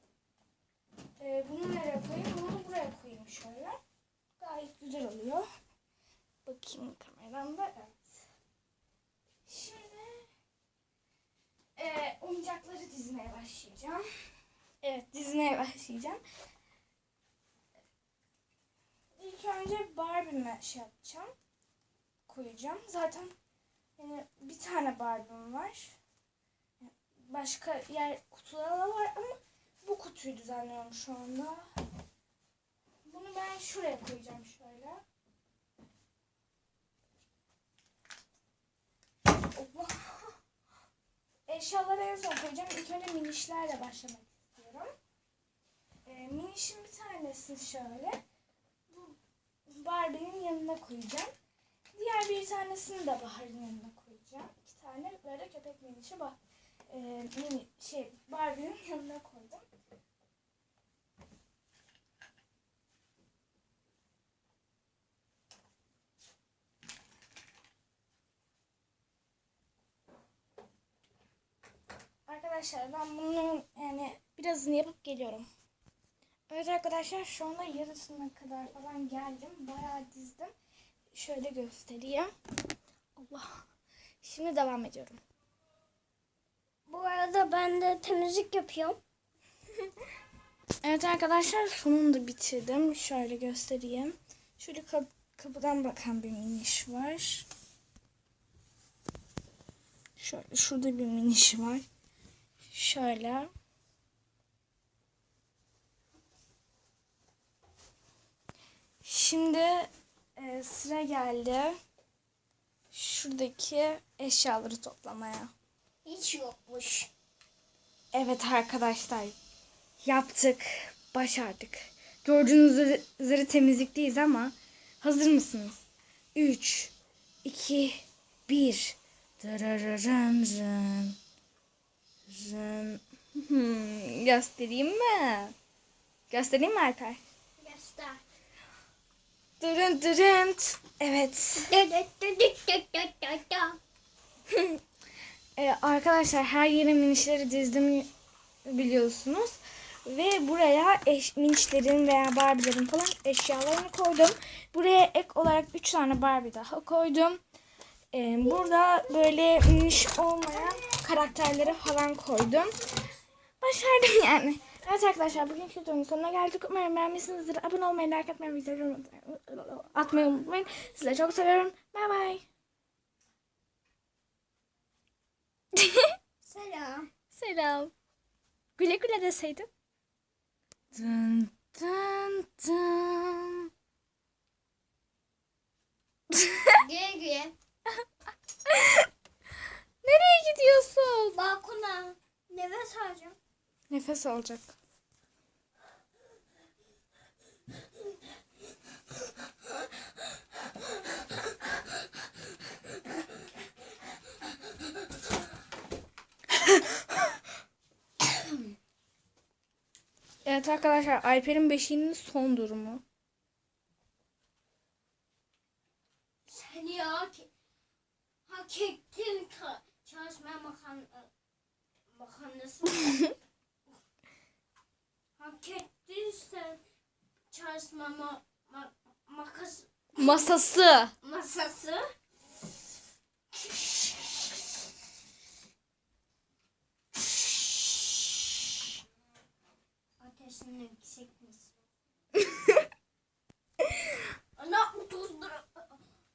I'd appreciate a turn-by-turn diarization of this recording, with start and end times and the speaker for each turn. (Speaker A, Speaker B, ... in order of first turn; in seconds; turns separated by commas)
Speaker A: 1.2-3.8, Speaker A: 4.4-5.5, Speaker A: 6.5-8.2, Speaker A: 9.5-10.3, Speaker A: 11.8-14.1, Speaker A: 14.8-16.2, Speaker A: 19.2-21.3, Speaker A: 22.3-23.3, Speaker A: 24.0-25.9, Speaker A: 26.8-31.7, Speaker A: 33.0-35.0, Speaker A: 39.3-40.4, Speaker A: 41.5-44.9, Speaker A: 46.0-48.2, Speaker A: 48.9-49.2, Speaker A: 49.7-51.3, Speaker A: 51.9-56.4, Speaker A: 56.9-59.7, Speaker A: 72.3-75.5, Speaker A: 76.5-80.5, Speaker A: 81.1-82.3, Speaker A: 83.2-83.6, Speaker A: 84.2-85.2, Speaker B: 86.9-89.0, Speaker A: 90.8-97.5, Speaker A: 100.2-101.8, Speaker A: 102.7-103.5, Speaker A: 109.0-111.8, Speaker A: 112.9-115.5, Speaker B: 116.0-117.1, Speaker A: 118.1-119.4, Speaker A: 120.0-125.8, Speaker A: 126.3-126.9, Speaker A: 127.4-131.2, Speaker A: 132.3-135.6, Speaker A: 136.3-137.2, Speaker B: 137.6-138.2, Speaker A: 139.6-141.7, Speaker B: 141.6-143.8, Speaker A: 144.5-144.8, Speaker A: 145.6-148.1, Speaker A: 148.7-157.4, Speaker A: 158.1-162.7, Speaker A: 163.6-172.4, Speaker A: 175.8-176.1, Speaker B: 176.4-177.1, Speaker A: 177.3-177.9, Speaker A: 178.8-179.7, Speaker A: 180.9-183.7, Speaker A: 186.3-186.8, Speaker B: 186.7-187.6, Speaker A: 188.7-189.1, Speaker A: 190.0-191.4, Speaker B: 191.3-193.4, Speaker A: 193.9-194.8, Speaker A: 210.4-213.0, Speaker B: 216.5-217.5, Speaker B: 218.5-221.3, Speaker B: 222.1-223.3, Speaker B: 225.4-226.8, Speaker B: 227.5-230.5, Speaker A: 230.2-231.1, Speaker B: 231.2-232.1, Speaker B: 233.6-234.0, Speaker B: 240.2-241.7, Speaker A: 242.4-242.9, Speaker B: 244.6-246.0